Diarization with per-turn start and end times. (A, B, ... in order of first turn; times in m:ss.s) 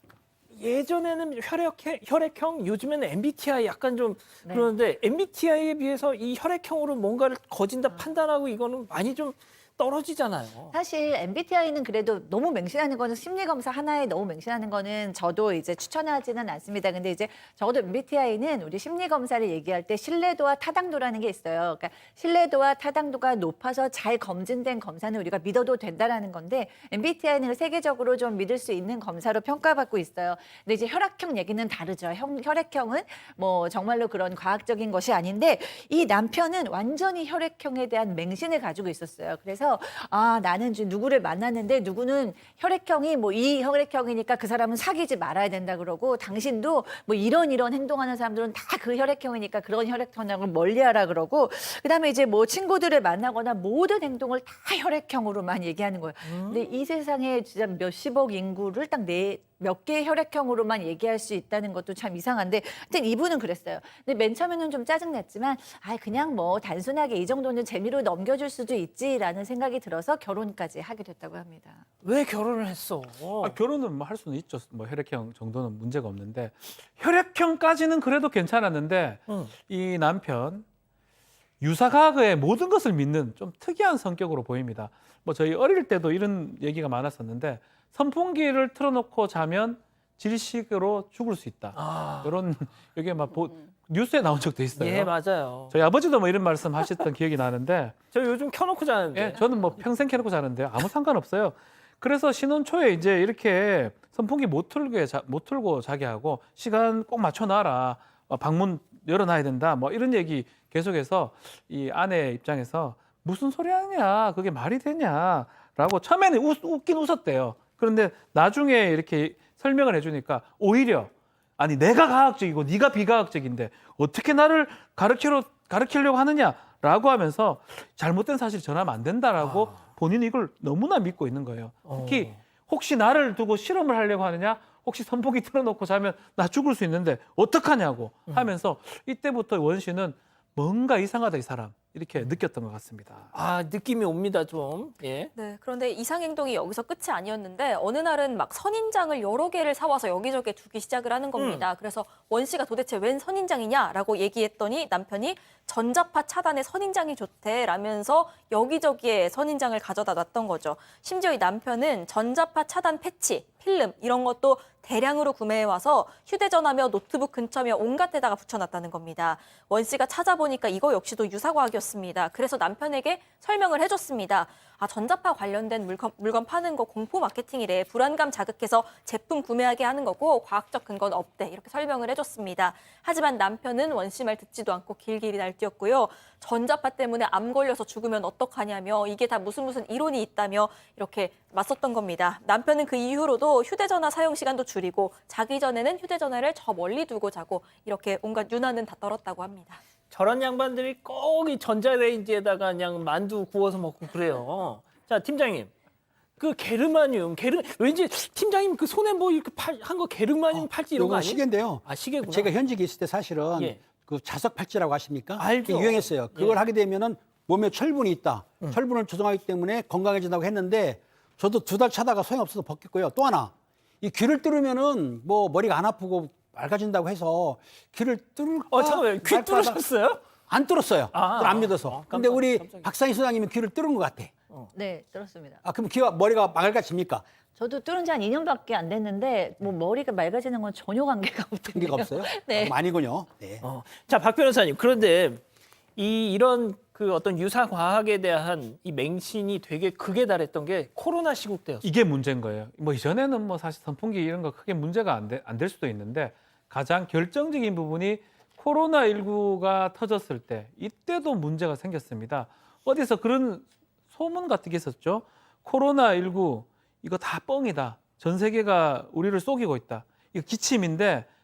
0:00.5-0:10.7 A
0:10.7-1:11.8 B
0:56.2-0:56.8 A
1:12.0-1:13.6 A
1:13.4-1:20.6 C
1:19.3-1:19.5 A
1:21.6-1:35.1 C
1:31.7-1:32.4 A
1:34.8-1:35.7 A
1:35.7-1:38.0 C
1:38.1-1:39.8 A
1:39.1-2:23.3 C
2:09.4-2:09.9 A
2:11.8-2:12.4 A
2:18.3-2:18.5 A
2:23.3-2:25.3 A
2:25.3-3:19.8 D
2:31.4-2:31.7 A
3:20.1-3:25.7 A
3:26.4-3:32.5 A
3:30.5-3:49.8 E
3:33.5-3:33.8 A
3:35.4-3:36.6 A
3:48.7-3:50.2 A
3:50.5-3:54.3 E
3:51.1-3:52.9 A
3:54.7-3:55.6 B
3:55.6-3:57.2 E
3:57.6-4:02.7 B
4:01.7-4:03.6 E
4:03.6-4:05.4 A
4:06.0-4:11.8 A
4:11.8-4:31.3 C